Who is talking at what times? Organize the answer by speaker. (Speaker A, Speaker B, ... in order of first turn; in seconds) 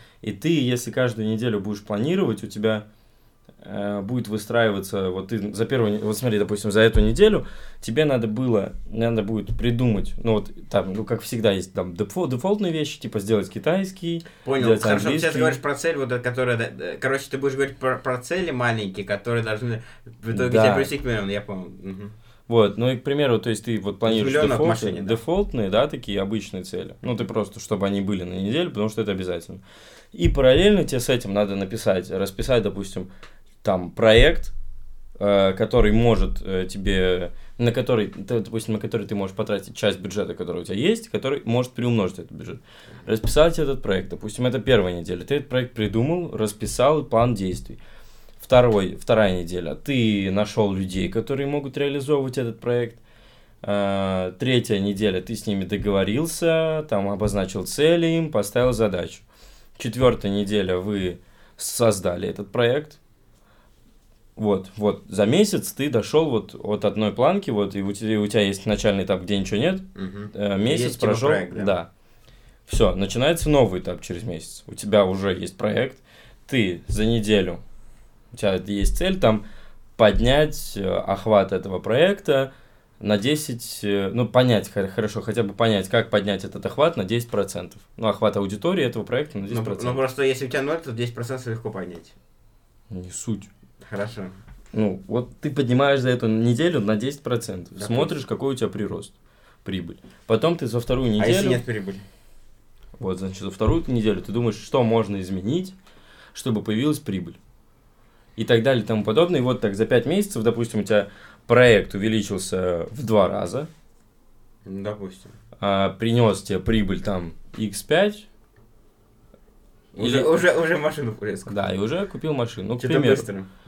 Speaker A: 0.2-2.9, 3.6-15.6, 20.3-20.9, 22.5-33.1, 33.6-34.5, 35.2-47.8, 48.4-53.0, 53.6-59.2, 59.8-63.0, 64.3-71.9, 72.7-77.6, 78.3-79.4, 80.0-90.0, 92.9-93.5, 94.7-101.6, 103.0-105.7, 106.3-107.4, 108.3-113.7, 115.6-118.3, 120.0-120.3, 121.5-123.2
Speaker B: 14.4-22.1, 24.0-25.2, 69.9-71.7, 89.5-92.1, 93.8-94.4, 97.7-98.2, 101.2-102.0, 114.6-115.3, 119.9-121.5, 122.8-123.5